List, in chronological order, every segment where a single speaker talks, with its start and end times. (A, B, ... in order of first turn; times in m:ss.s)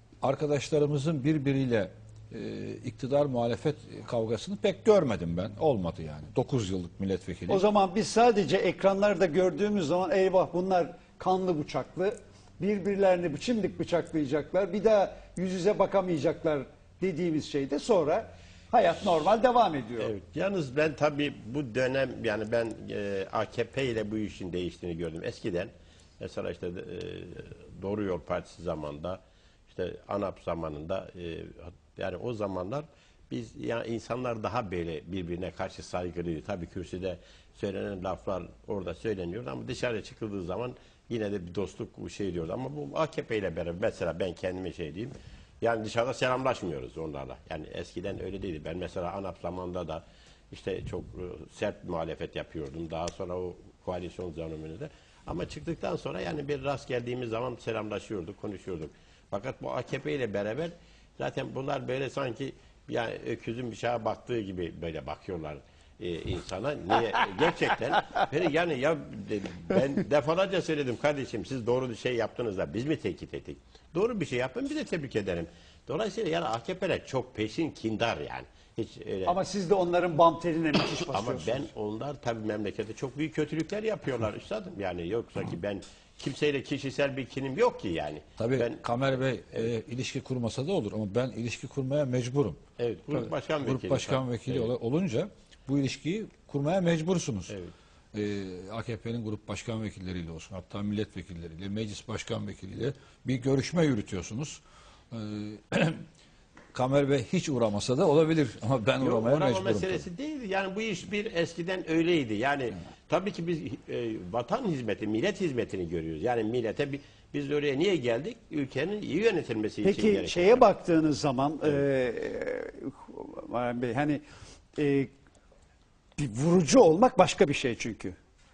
0:00.2-0:07.6 A
0:07.5-0:20.1 B
0:20.0-1:19.3 C
1:19.2-1:21.7 B
1:21.1-1:28.8 C
1:28.4-1:32.6 A
1:32.8-1:34.7 C
1:33.1-1:37.5 A
1:38.1-1:46.0 A
1:46.7-1:50.0 A
1:49.0-2:00.6 C
1:59.8-2:04.2 B
2:04.8-2:05.1 B
2:06.2-2:08.2 B